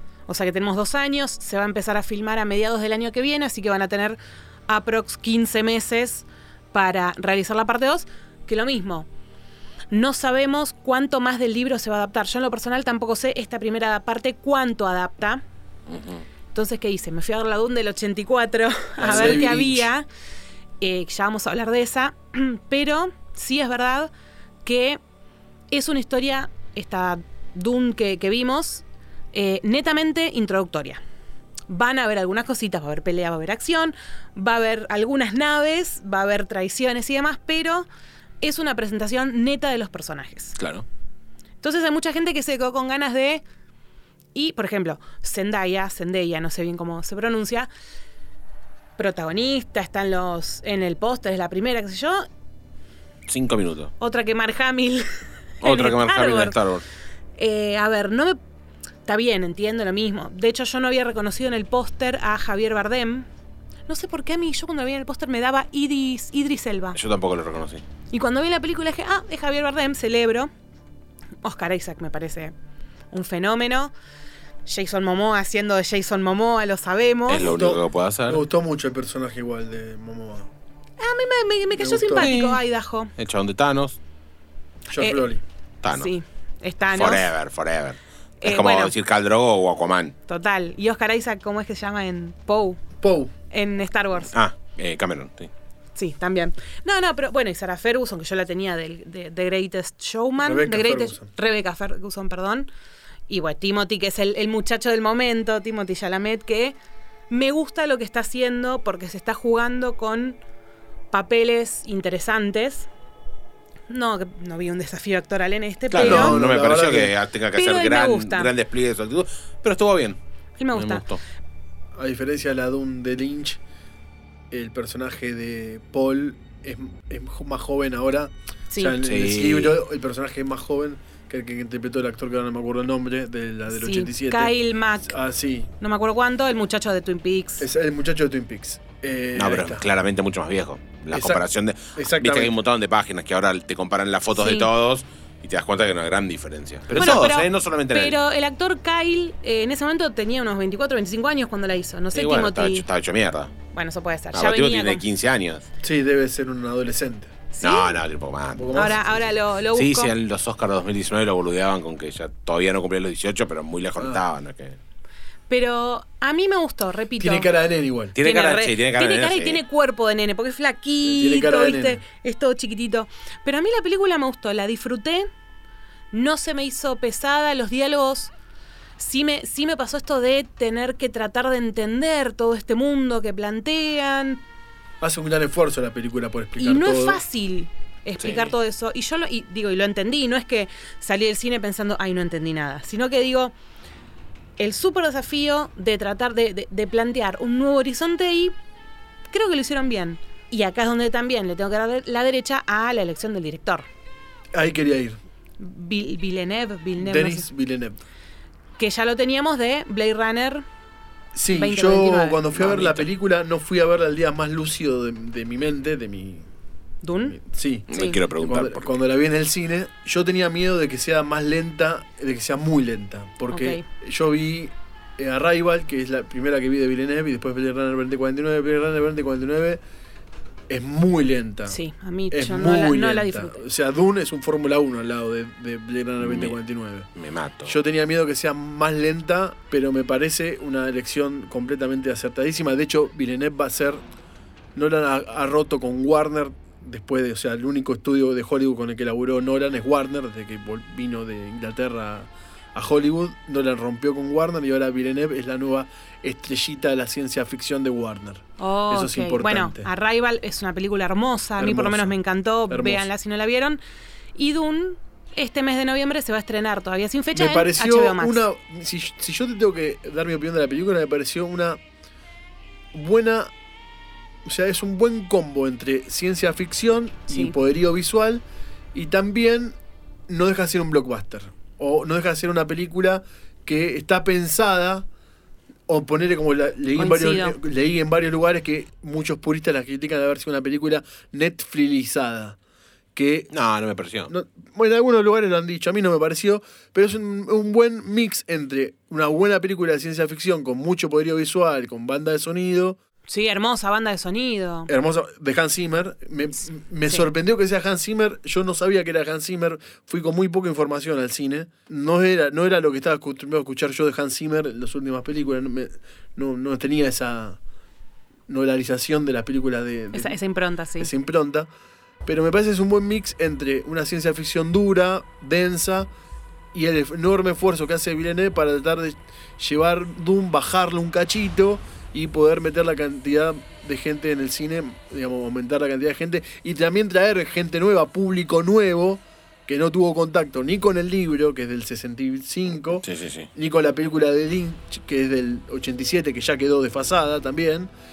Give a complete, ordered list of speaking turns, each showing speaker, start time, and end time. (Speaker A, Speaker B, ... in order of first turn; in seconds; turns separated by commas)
Speaker A: 0.3-9.1, Speaker A: 9.9-15.4, Speaker B: 15.9-16.2, Speaker A: 16.5-20.1, Speaker C: 19.0-19.9, Speaker B: 19.0-19.4, Speaker A: 20.8-24.1, Speaker A: 24.6-25.0, Speaker A: 25.7-31.0, Speaker A: 31.7-37.9, Speaker A: 38.4-40.6, Speaker B: 40.6-40.8, Speaker A: 41.6-43.4, Speaker A: 44.3-47.7, Speaker A: 49.0-52.3, Speaker B: 53.3-53.9, Speaker A: 54.0-56.5, Speaker B: 55.6-56.8, Speaker A: 57.4-58.4, Speaker A: 59.0-63.3, Speaker A: 63.9-67.0, Speaker B: 66.9-67.8, Speaker A: 68.1-70.5, Speaker A: 71.4-72.5, Speaker A: 73.1-73.9, Speaker A: 74.7-77.5, Speaker B: 77.3-78.4, Speaker C: 77.4-80.5, Speaker A: 81.0-83.1, Speaker C: 81.8-82.3, Speaker B: 82.2-82.6, Speaker B: 83.2-84.0, Speaker C: 84.9-85.4, Speaker A: 84.9-85.2, Speaker B: 85.8-86.1, Speaker A: 85.9-87.3, Speaker B: 86.9-90.1, Speaker A: 88.4-88.9, Speaker A: 90.3-92.8, Speaker C: 93.0-93.3, Speaker A: 93.5-94.3, Speaker B: 94.3-95.5, Speaker A: 96.0-102.7, Speaker C: 100.4-101.3, Speaker A: 103.3-106.8, Speaker A: 107.3-110.4, Speaker A: 111.1-112.9, Speaker A: 113.9-116.4, Speaker B: 115.9-120.2, Speaker C: 115.9-117.1, Speaker A: 117.5-118.5, Speaker A: 120.6-121.0, Speaker B: 120.7-121.2, Speaker C: 121.9-123.6, Speaker C: 124.5-135.7, Speaker A: 128.7-129.0, Speaker B: 129.0-129.7, Speaker A: 133.7-135.1, Speaker A: 135.8-137.7, Speaker C: 137.6-139.8, Speaker B: 139.3-148.2, Speaker C: 141.1-141.4, Speaker C: 141.9-142.5, Speaker A: 144.3-144.7, Speaker A: 146.9-152.8, Speaker B: 152.1-153.5, Speaker A: 153.7-155.0, Speaker B: 154.3-155.7, Speaker C: 155.8-157.3, Speaker A: 157.6-158.0, Speaker B: 157.6-159.0, Speaker C: 158.5-159.3, Speaker A: 158.7-160.1, Speaker B: 159.7-164.8, Speaker C: 164.0-164.2, Speaker A: 165.5-167.6, Speaker C: 167.2-168.2, Speaker B: 168.2-169.6, Speaker A: 168.2-175.3, Speaker C: 171.0-172.0, Speaker A: 176.1-178.3, Speaker A: 179.0-184.4, Speaker C: 185.0-187.2, Speaker A: 186.6-193.5, Speaker B: 188.2-188.5, Speaker A: 194.6-198.5, Speaker A: 199.3-203.9, Speaker C: 204.5-205.2, Speaker A: 205.6-207.5, Speaker C: 207.0-208.0, Speaker A: 208.8-210.6, Speaker C: 211.3-216.5, Speaker A: 211.5-212.4, Speaker B: 212.5-213.1, Speaker A: 217.0-217.4, Speaker C: 217.3-229.8, Speaker B: 217.9-218.8, Speaker A: 217.9-218.2, Speaker A: 223.5-223.8, Speaker C: 230.7-231.8, Speaker A: 231.7-233.6, Speaker C: 232.3-237.1, Speaker B: 236.2-236.5, Speaker B: 237.2-237.7, Speaker C: 237.6-244.0, Speaker C: 244.7-259.9, Speaker A: 258.6-263.8, Speaker C: 261.6-262.1, Speaker C: 262.7-263.1, Speaker A: 264.3-268.4, Speaker C: 267.3-271.8, Speaker C: 272.9-273.5, Speaker C: 274.4-279.8, Speaker A: 277.3-277.5, Speaker C: 280.3-285.1, Speaker C: 285.9-292.6, Speaker A: 287.0-287.6, Speaker C: 293.1-293.5, Speaker B: 293.5-294.3, Speaker C: 294.3-303.0, Speaker A: 303.3-304.9, Speaker C: 304.9-317.6, Speaker C: 318.5-320.4, Speaker A: 320.1-321.1, Speaker C: 321.0-321.7, Speaker C: 322.2-326.1, Speaker C: 326.7-347.9, Speaker B: 343.0-343.5